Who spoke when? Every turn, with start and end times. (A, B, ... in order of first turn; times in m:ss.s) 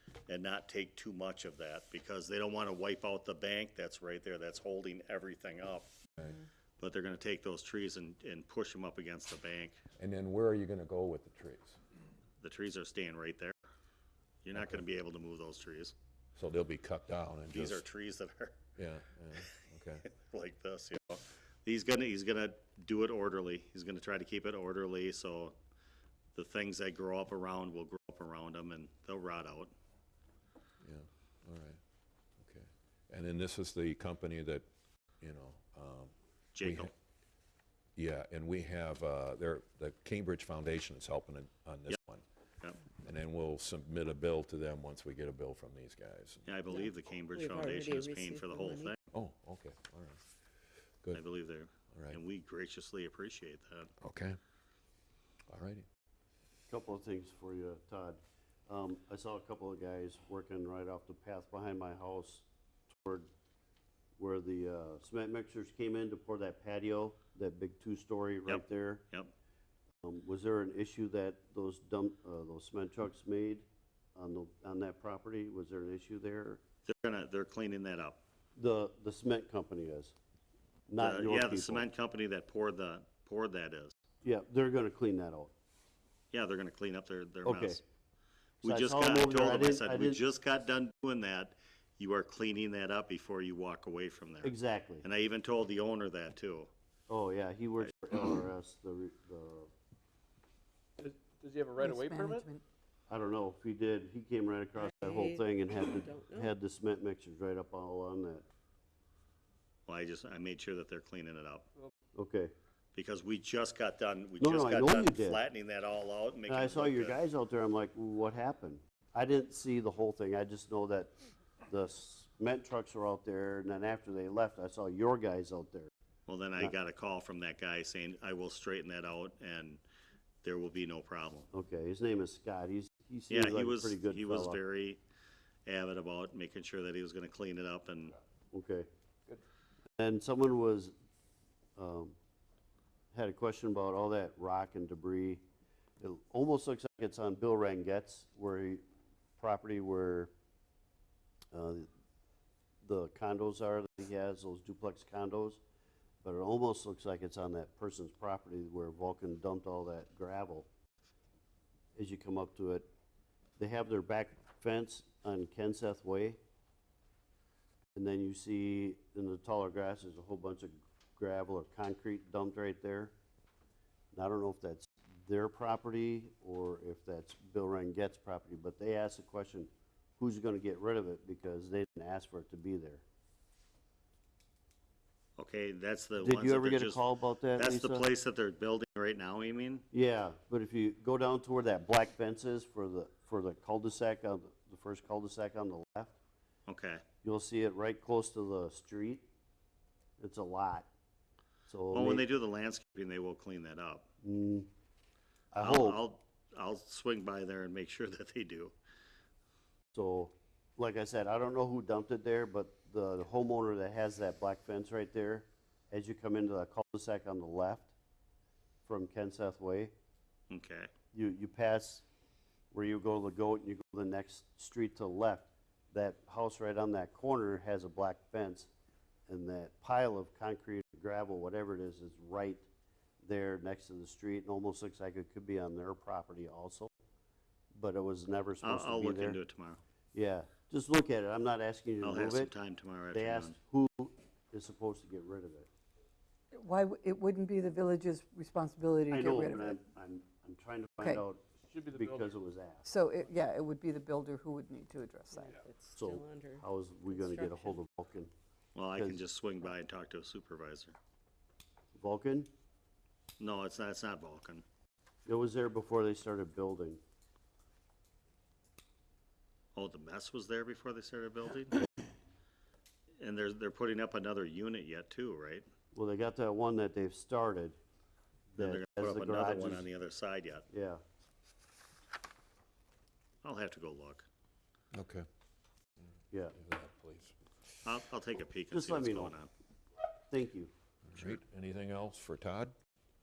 0:00.3-0:05.9 A
0:06.2-0:06.4 B
0:06.8-0:09.8 A
0:10.0-0:11.8 B
0:12.4-0:13.6 A
0:14.4-0:15.9 A
0:16.4-0:17.8 B
0:17.5-0:18.6 A
0:18.8-0:20.1 B
0:20.1-0:25.6 A
0:26.3-0:29.7 A
0:30.8-0:31.8 B
0:32.4-0:34.6 B
0:35.2-0:36.9 B
0:36.5-0:36.9 A
0:38.0-0:42.2 B
0:43.0-0:46.4 B
0:46.4-0:49.0 A
0:46.7-0:48.9 C
0:49.1-0:50.2 B
0:51.1-0:53.9 A
0:51.9-0:52.2 B
0:54.0-0:54.4 B
0:55.5-0:55.8 B
0:56.7-1:03.3 D
1:04.2-1:09.0 D
1:08.5-1:09.3 A
1:10.0-1:16.6 D
1:16.8-1:18.2 A
1:18.6-1:20.1 D
1:20.9-1:21.8 D
1:21.0-1:23.9 A
1:24.2-1:25.5 D
1:26.3-1:27.8 A
1:27.4-1:27.8 D
1:28.6-1:36.7 A
1:28.6-1:30.2 D
1:34.4-1:35.0 D
1:37.1-1:39.7 D
1:41.0-1:42.4 E
1:41.8-1:42.6 F
1:43.1-1:48.4 D
1:44.7-1:46.5 C
1:49.9-1:51.6 A
1:52.1-1:52.5 D
1:52.9-1:57.2 A
1:54.4-1:55.4 D
1:56.5-2:01.1 D
2:01.7-2:05.9 D
2:06.3-2:09.8 A
2:10.4-2:11.5 A
2:11.5-2:14.6 D
2:13.3-2:15.0 A
2:15.6-2:18.2 A
2:18.5-2:18.9 D
2:20.0-2:20.9 D
2:21.8-2:22.1 D
2:23.1-2:25.4 D
2:26.0-2:28.8 D
2:29.4-2:30.3 D
2:31.5-2:31.9 D
2:32.8-2:35.6 D
2:36.2-2:40.7 D
2:42.0-2:42.9 D
2:43.6-2:46.4 D
2:47.9-2:53.1 D
2:54.1-3:03.0 D
3:05.4-3:09.8 A
3:06.2-3:08.1 D
3:09.9-3:16.2 D
3:16.7-3:17.0 A
3:17.2-3:19.2 D
3:20.2-3:20.9 D
3:21.7-3:22.2 D
3:21.9-3:24.0 A
3:24.2-3:24.7 D
3:25.5-3:26.0 D
3:25.6-3:28.7 A
3:29.9-3:37.9 D
3:38.8-3:39.9 D
3:40.5-3:40.9 A
3:41.1-3:42.0 D
3:42.7-3:48.7 D
3:49.3-3:52.6 D
3:53.2-3:56.9 D
3:57.7-3:59.4 D
3:58.6-3:59.8 A
4:00.1-4:02.5 D
4:02.0-4:03.6 A
4:03.1-4:05.7 D
4:06.5-4:09.8 F
4:09.1-4:12.8 D
4:11.0-4:11.2 F
4:11.7-4:12.2 E
4:12.8-4:15.6 F
4:15.3-4:17.8 C
4:15.9-4:18.3 D
4:18.7-4:21.0 A
4:18.9-4:19.2 D
4:22.0-4:22.5 D
4:23.4-4:24.6 A
4:25.2-4:27.0 D
4:29.7-4:31.8 A
4:33.2-4:35.7 A
4:35.9-4:37.8 D
4:38.5-4:39.9 D
4:38.6-4:40.6 A
4:40.7-4:41.0 D
4:43.4-4:44.2 A
4:44.9-4:45.2 B
4:46.5-4:47.3 B
4:47.8-4:49.5 A
4:48.7-4:49.4 D
4:50.3-4:50.7 D
4:51.1-4:52.7 B